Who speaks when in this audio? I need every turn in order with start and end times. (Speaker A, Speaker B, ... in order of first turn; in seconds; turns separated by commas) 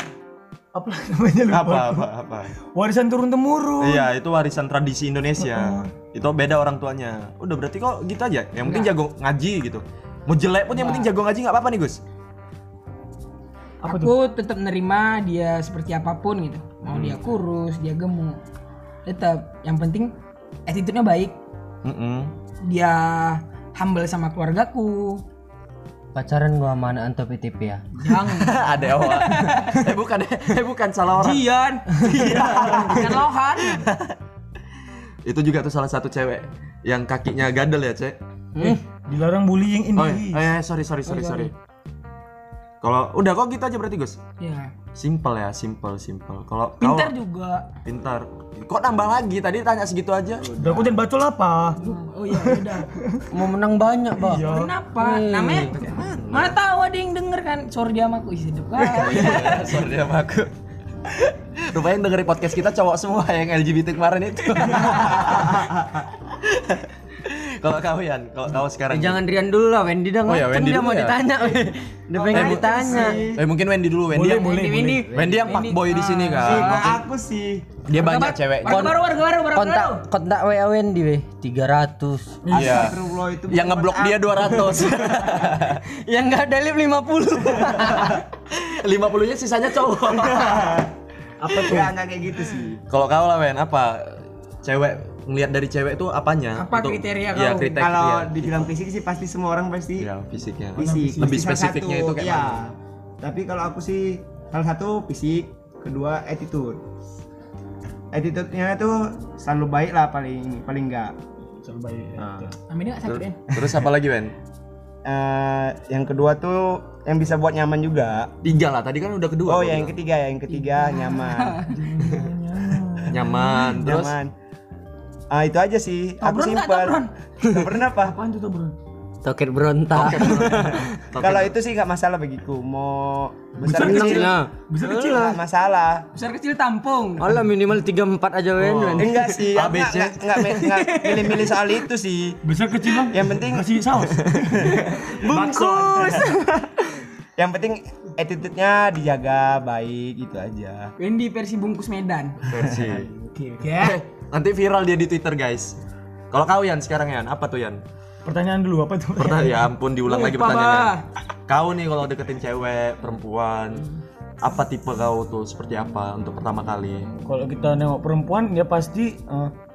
Speaker A: 0.7-4.1, Speaker B: 1.5-2.5, Speaker B: 3.8-12.0, Speaker A: 5.4-5.9, Speaker C: 8.6-8.9, Speaker C: 10.7-11.1, Speaker A: 13.8-14.1, Speaker C: 13.8-18.4, Speaker B: 16.8-17.2, Speaker C: 19.1-20.1, Speaker C: 20.7-21.4, Speaker B: 21.8-22.3, Speaker C: 22.6-25.2, Speaker D: 26.1-27.9, Speaker C: 28.0-29.9, Speaker B: 28.2-34.1, Speaker C: 31.2-33.9, Speaker B: 35.2-38.2, Speaker A: 38.6-40.5, Speaker B: 40.0-41.5, Speaker B: 42.8-44.2, Speaker C: 44.4-44.7, Speaker B: 44.9-47.1, Speaker C: 46.8-47.7, Speaker B: 47.8-50.5, Speaker E: 50.4-51.0, Speaker A: 50.6-53.3, Speaker C: 51.8-52.9, Speaker D: 53.3-54.5, Speaker A: 54.1-54.7, Speaker C: 54.3-59.8, Speaker D: 55.0-55.8, Speaker B: 55.8-56.6, Speaker B: 59.0-60.5, Speaker B: 61.1-69.2, Speaker D: 68.9-73.3, Speaker B: 70.2-71.2, Speaker E: 72.1-73.4, Speaker B: 72.3-77.0, Speaker A: 74.1-75.1, Speaker C: 74.2-77.0, Speaker E: 76.4-77.7, Speaker B: 77.8-78.9, Speaker C: 77.9-80.0, Speaker D: 78.6-79.0, Speaker D: 79.5-82.4, Speaker A: 82.4-83.0, Speaker E: 82.5-85.4, Speaker B: 82.5-85.8, Speaker D: 86.0-88.2, Speaker B: 87.8-90.8, Speaker E: 90.2-90.9, Speaker B: 91.4-91.9, Speaker E: 91.5-92.8, Speaker B: 92.9-98.7, Speaker C: 96.5-97.8, Speaker E: 97.8-100.1, Speaker B: 100.0-102.6, Speaker E: 100.8-106.8, Speaker A: 100.8-101.5, Speaker E: 108.1-111.1, Speaker A: 111.6-112.5, Speaker E: 112.2-112.5, Speaker C: 112.7-113.4, Speaker B: 113.0-114.3, Speaker E: 115.0-118.3, Speaker B: 118.4-119.9, Speaker E: 119.5-121.8, Speaker C: 120.7-121.8, Speaker A: 121.7-123.9, Speaker B: 123.1-124.2, Speaker E: 123.7-124.3, Speaker E: 125.3-128.2, Speaker C: 126.2-127.1, Speaker A: 128.0-128.7, Speaker D: 129.2-130.9, Speaker B: 129.9-131.6, Speaker E: 131.2-134.3, Speaker A: 133.6-135.4, Speaker D: 133.7-134.9, Speaker E: 134.9-136.1, Speaker C: 136.1-137.3, Speaker D: 137.2-139.2, Speaker B: 138.6-140.7, Speaker E: 139.0-142.4, Speaker C: 140.5-141.6, Speaker A: 142.4-146.3, Speaker E: 142.9-143.8, Speaker E: 144.6-146.5, Speaker E: 147.4-150.9, Speaker C: 151.0-152.4, Speaker B: 152.4-153.1, Speaker A: 152.9-153.8, Speaker C: 153.6-154.0, Speaker B: 153.7-155.8, Speaker B: 156.3-157.8, Speaker A: 158.2-159.7, Speaker B: 159.2-160.9, Speaker C: 160.1-161.0, Speaker B: 161.5-163.9, Speaker B: 164.4-167.1, Speaker A: 167.2-169.5